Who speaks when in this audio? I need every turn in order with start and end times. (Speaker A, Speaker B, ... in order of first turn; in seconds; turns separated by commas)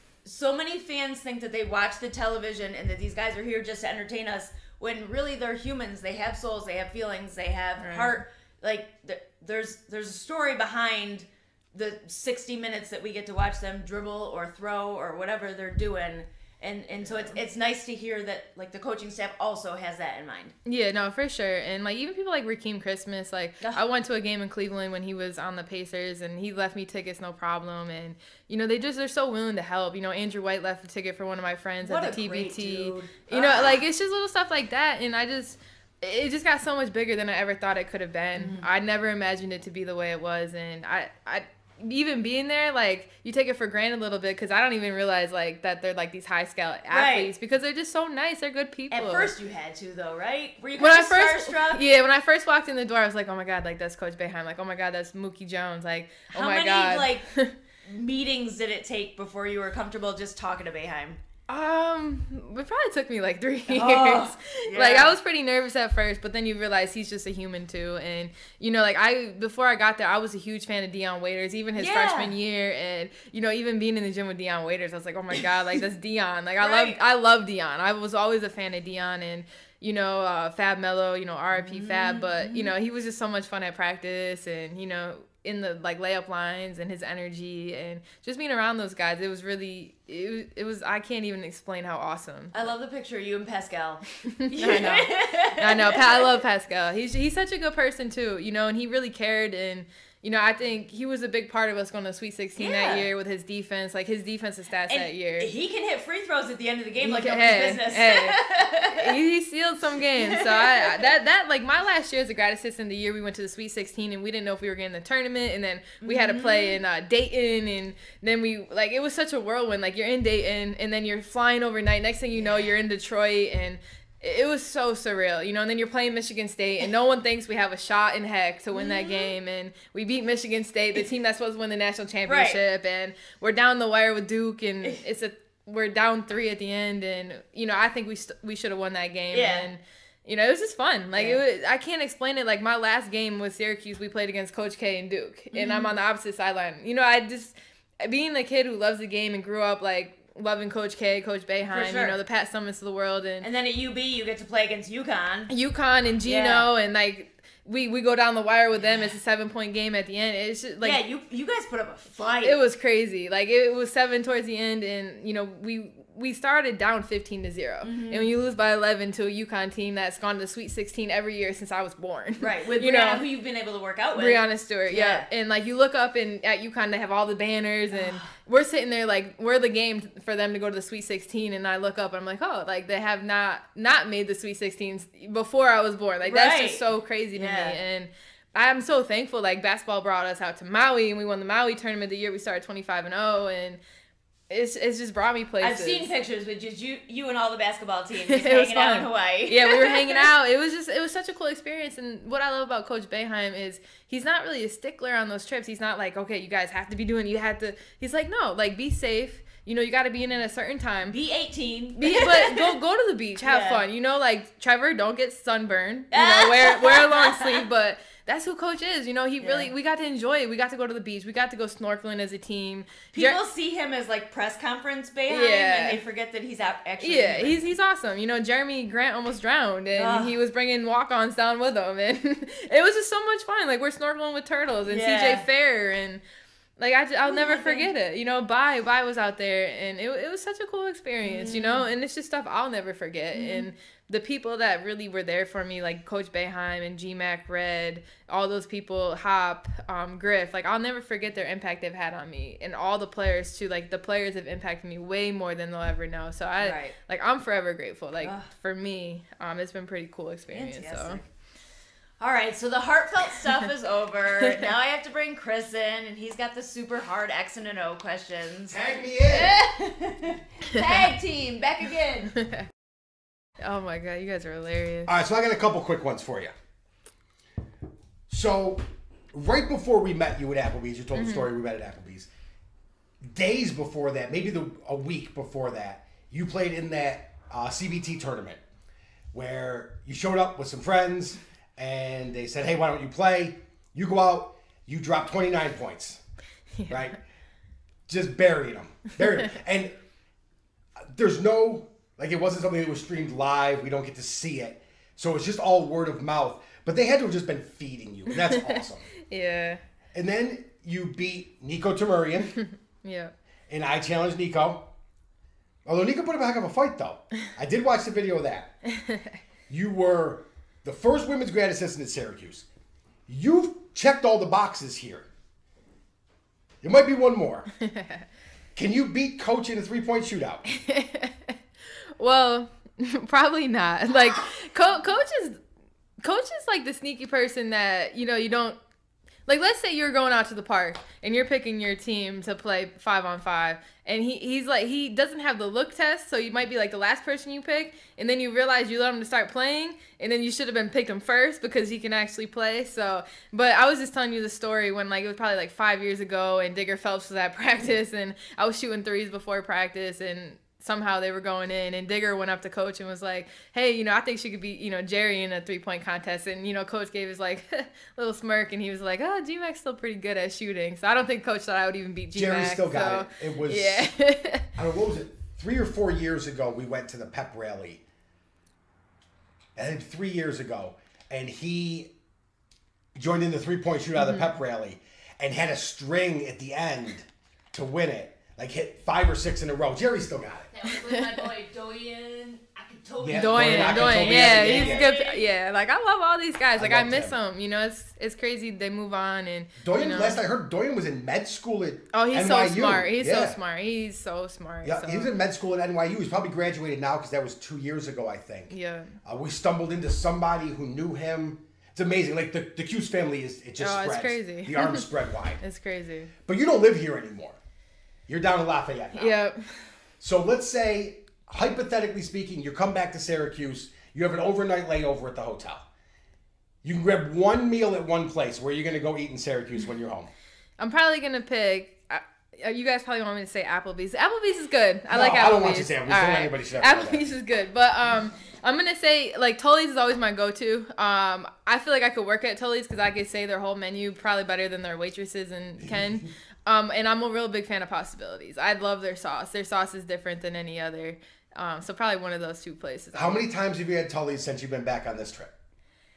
Speaker A: 0.2-20.6, Speaker B: 7.8-8.2, Speaker B: 17.1-17.4, Speaker B: 20.6-49.3, Speaker A: 31.8-33.8, Speaker A: 38.4-38.7, Speaker A: 46.9-47.3, Speaker A: 48.9-51.8, Speaker B: 50.8-57.5, Speaker A: 56.3-57.3, Speaker A: 57.9-61.2, Speaker B: 61.5-92.7, Speaker A: 63.7-65.2, Speaker A: 71.8-72.3, Speaker A: 76.6-77.0, Speaker A: 81.5-82.7, Speaker A: 92.5-96.3, Speaker B: 94.2-105.5, Speaker A: 102.6-103.1, Speaker A: 104.9-109.2, Speaker B: 107.0-153.5, Speaker A: 110.2-111.0, Speaker A: 116.0-116.8, Speaker A: 128.8-129.3, Speaker A: 132.3-132.6, Speaker A: 139.3-139.7, Speaker A: 141.1-141.4, Speaker A: 145.5-145.9, Speaker A: 151.7-152.2, Speaker A: 153.4-155.5, Speaker B: 155.5-161.0, Speaker A: 156.2-156.7, Speaker A: 158.8-159.1, Speaker A: 160.8-162.6, Speaker B: 162.4-173.3, Speaker A: 167.8-168.3, Speaker A: 172.4-175.3, Speaker B: 174.2-193.8, Speaker A: 177.9-178.3, Speaker A: 186.2-187.8, Speaker B: 194.5-196.1, Speaker A: 195.6-200.3, Speaker B: 198.3-211.2, Speaker A: 211.1-212.8, Speaker B: 212.0-223.4, Speaker A: 213.4-213.8, Speaker A: 216.1-217.6, Speaker A: 219.4-219.7, Speaker A: 223.1-227.6, Speaker B: 225.3-226.0, Speaker B: 227.0-236.2, Speaker A: 230.0-230.4, Speaker A: 234.9-235.5, Speaker B: 236.8-261.2, Speaker A: 237.2-237.9, Speaker A: 241.2-241.9, Speaker A: 243.3-243.7, Speaker A: 256.6-256.9, Speaker A: 258.2-258.5, Speaker A: 260.5-261.3, Speaker A: 262.2-272.3, Speaker C: 268.7-269.6, Speaker B: 273.6-275.1, Speaker C: 275.1-276.5, Speaker C: 278.3-282.3, Speaker B: 281.1-281.5, Speaker C: 283.3-288.6, Speaker C: 289.3-296.2, Speaker C: 296.9-297.2, Speaker C: 298.1-300.0, Speaker C: 301.1-309.1, Speaker B: 308.4-309.8, Speaker C: 310.1-312.6, Speaker B: 313.0-313.3, Speaker C: 313.7-314.9, Speaker C: 315.9-318.8, Speaker B: 318.9-319.3, Speaker C: 319.7-322.7, Speaker C: 323.3-325.3, Speaker C: 326.8-327.7, Speaker B: 327.8-328.2, Speaker C: 328.8-330.6, Speaker B: 330.6-331.6, Speaker B: 332.2-335.6, Speaker B: 336.2-338.8, Speaker B: 339.5-374.7, Speaker C: 372.3-374.1, Speaker C: 374.8-378.0, Speaker C: 379.8-382.1, Speaker C: 383.1-390.7, Speaker B: 384.2-384.5, Speaker A: 390.7-395.5, Speaker C: 393.2-395.1, Speaker B: 393.3-400.4, Speaker C: 396.8-397.4, Speaker C: 399.8-403.6, Speaker B: 402.1-405.4, Speaker C: 404.8-415.6, Speaker B: 408.7-409.1, Speaker B: 413.8-415.1, Speaker B: 415.6-416.3, Speaker C: 416.5-417.6, Speaker C: 418.3-419.4, Speaker B: 419.1-419.6, Speaker C: 420.2-425.9, Speaker C: 426.8-430.3, Speaker B: 430.8-453.5, Speaker C: 435.1-437.3, Speaker C: 453.1-455.5